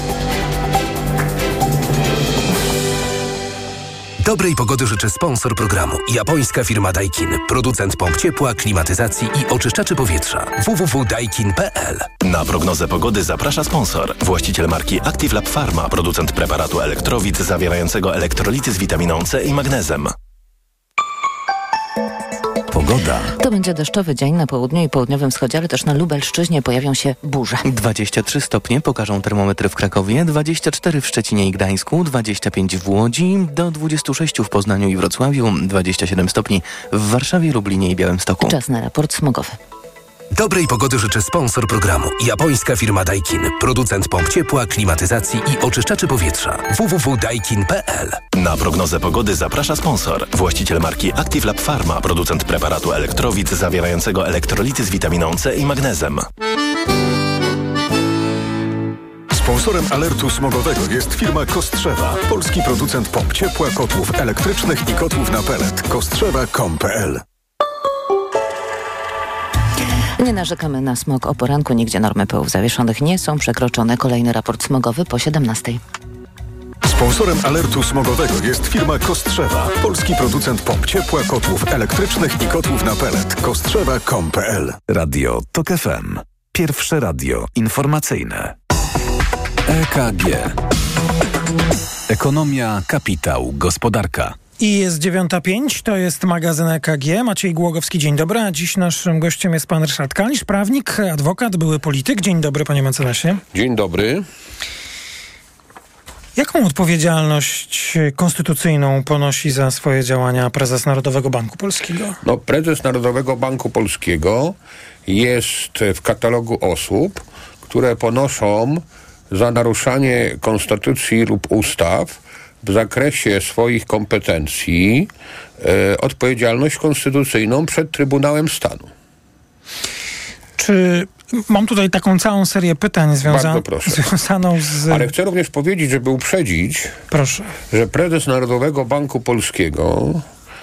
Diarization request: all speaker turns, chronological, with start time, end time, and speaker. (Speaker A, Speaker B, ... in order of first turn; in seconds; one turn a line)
Speaker A: 4.2-12.1
Speaker B: 12.2-20.1
Speaker C: 22.7-23.4
Speaker D: 23.4-27.6
Speaker E: 27.6-38.6
Speaker D: 38.4-39.6
Speaker A: 40.3-48.2
Speaker B: 48.4-56.3
Speaker F: 59.3-67.2
Speaker D: 70.2-75.8
Speaker F: 76.8-84.8
Speaker C: 84.9-88.5
Speaker C: 89.7-90.6
Speaker C: 92.1-94.4
Speaker G: 94.6-103.4
Speaker H: 103.5-104.2
Speaker G: 106.4-112.2
Speaker H: 112.2-114.5
Speaker H: 115.1-125.1
Speaker H: 125.6-128.9
Speaker G: 130.6-135.1
Speaker H: 133.2-134.1
Speaker H: 134.9-136.9
Speaker G: 137.1-137.5
Speaker H: 137.7-140.2